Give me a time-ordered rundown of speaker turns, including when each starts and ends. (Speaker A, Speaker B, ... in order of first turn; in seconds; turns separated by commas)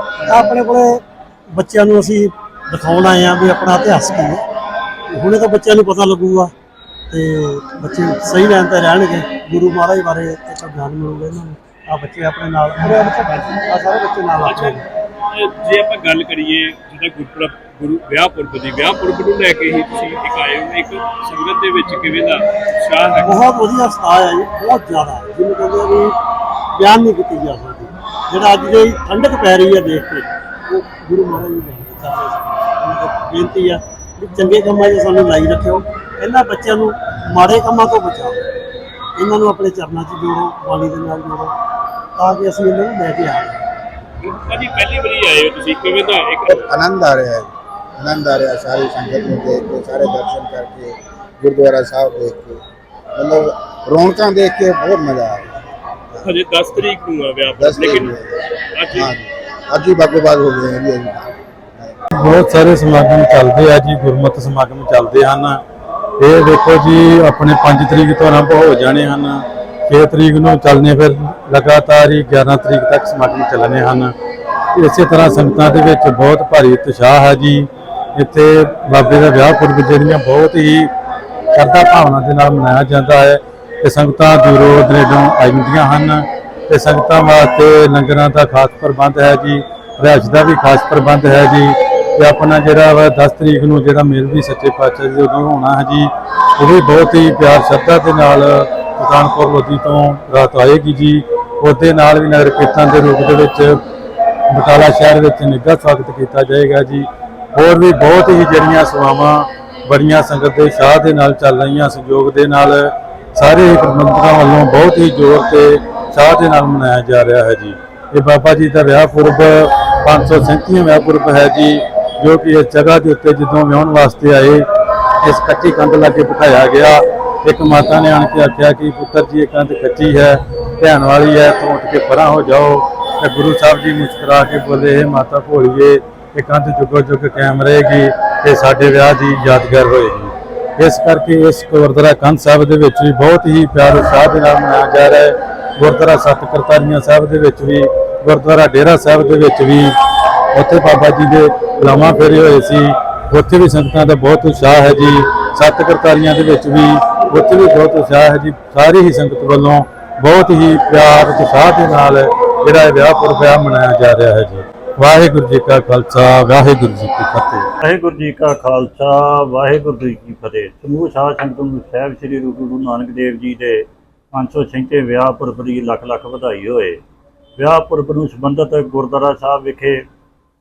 Speaker A: 0.2-4.4, Speaker A: 5.1-6.5, Speaker A: 7.1-14.8, Speaker B: 14.4-14.8, Speaker B: 15.3-23.3, Speaker A: 23.2-26.1, Speaker A: 26.7-38.4, Speaker A: 39.1-41.5, Speaker A: 42.1-43.6, Speaker B: 44.2-46.5, Speaker C: 46.5-52.6, Speaker C: 53.1-55.5, Speaker B: 56.2-58.1, Speaker C: 57.5-58.4, Speaker B: 58.7-59.1, Speaker C: 58.9-61.9, Speaker D: 62.1-65.6, Speaker D: 66.2-74.1, Speaker D: 74.7-80.9, Speaker D: 81.5-103.8, Speaker D: 104.5-124.6, Speaker D: 125.2-149.9, Speaker D: 150.5-167.7, Speaker E: 167.8-177.0, Speaker E: 177.6-180.0